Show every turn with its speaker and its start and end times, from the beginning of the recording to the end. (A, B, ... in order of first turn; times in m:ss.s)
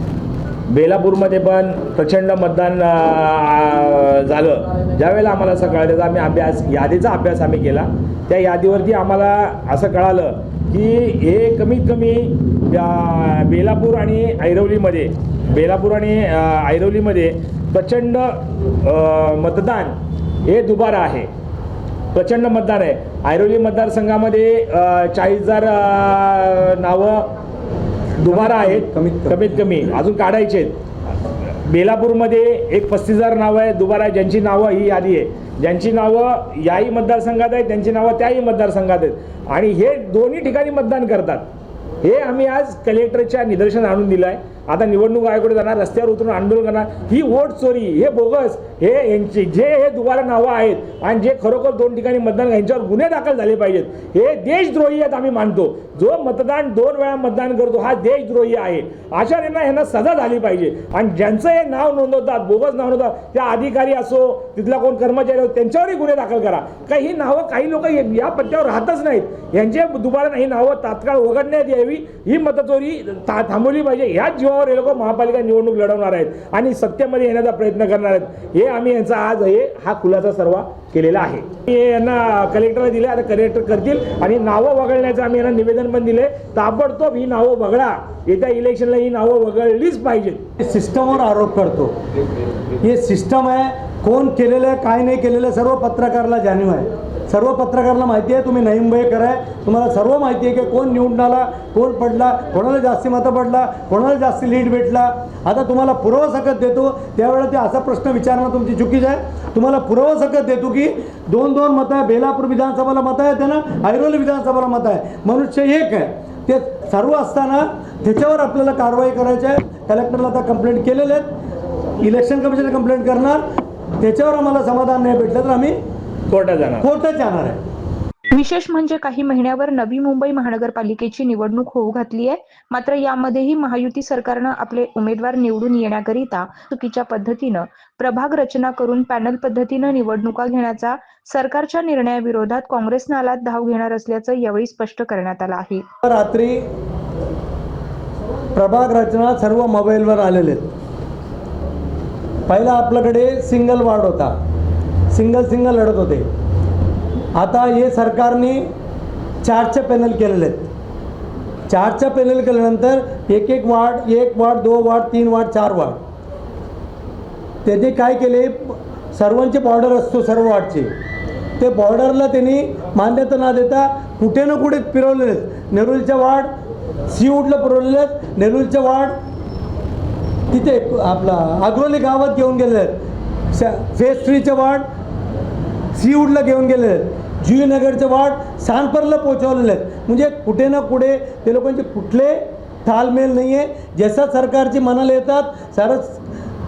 0:00.7-0:21.3 A
0:22.1-0:27.3 A
0:28.2-0:30.8 A
0:28.3-0:29.9 B
0:31.4-0:41.5 A
0:42.0-1:30.4 A
1:30.6-1:32.0 B
1:32.8-2:01.3 B
2:02.0-2:03.4 B
2:04.0-2:05.8 B
2:06.3-2:06.9 A
2:06.8-2:07.6 B
2:08.3-2:25.9 C
2:26.0-2:26.6 B
2:28.6-2:30.7 B
2:32.5-2:34.3 B
2:35.1-2:36.3 B
2:37.4-2:38.7 B
2:39.4-2:40.7 B
2:41.7-2:46.0 B
2:47.6-2:50.9 B
2:51.6-2:56.5 B
2:57.1-2:59.2 B
3:00.5-3:03.0 B
3:03.5-3:04.8 B
3:06.0-3:16.2 B